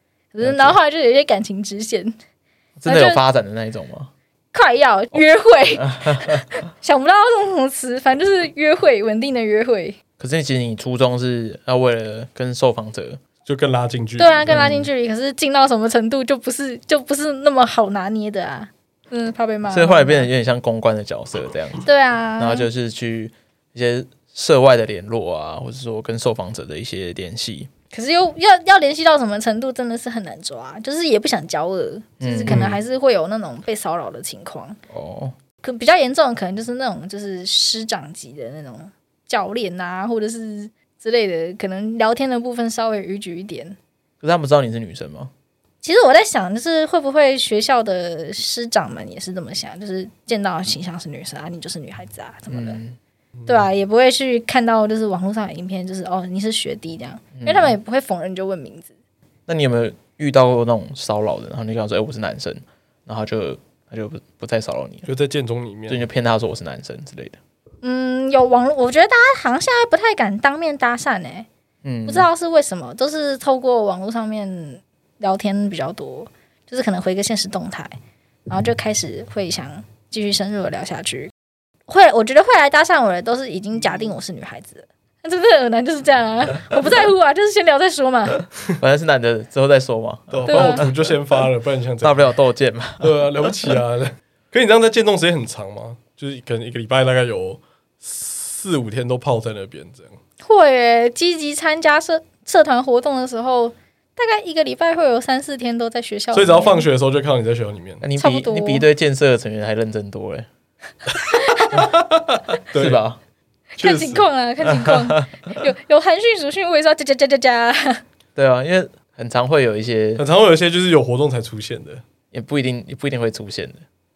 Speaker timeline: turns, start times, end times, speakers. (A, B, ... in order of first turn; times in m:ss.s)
0:00.3-0:02.1 A
0:00.4-0:00.8 B
0:02.8-0:04.1 B
0:02.9-0:03.2 A
0:04.5-0:10.0 A
0:05.8-0:06.5 B
0:10.2-0:13.2 B
0:13.4-0:14.6 C
0:14.2-0:20.3 A
0:14.5-0:14.9 B
0:19.7-0:21.8 B
0:21.8-0:22.7 A
0:22.4-0:27.7 B
0:27.9-0:34.8 A
0:32.2-0:32.8 B
0:32.5-0:32.7 C
0:34.9-0:35.3 B
0:35.6-0:43.8 A
0:44.2-0:45.3 B
0:45.8-0:52.8 A
0:52.5-0:53.0 B
0:53.4-0:58.9 A
0:57.3-0:57.7 B
0:59.5-1:05.1 B
1:05.0-1:06.0 C
1:05.9-1:07.4 B
1:07.8-1:11.5 A
1:11.8-1:12.3 B
1:12.1-1:17.9 A
1:18.5-1:21.3 A
1:21.9-1:28.4 A
1:28.8-1:30.9 B
1:30.3-1:32.3 C
1:30.5-1:30.9 A
1:32.0-1:33.2 B
1:33.0-1:40.2 C
1:40.4-1:46.9 A
1:46.3-1:48.0 C
1:48.0-1:50.5 B
1:48.2-1:48.8 A
1:51.3-1:51.8 A
1:51.7-1:53.0 C
1:52.7-1:53.2 B
1:53.8-1:54.2 C
1:53.8-1:58.0 A
1:54.7-1:55.3 B
1:58.4-2:00.2 B
2:00.2-2:02.0 C
2:02.3-2:03.8 B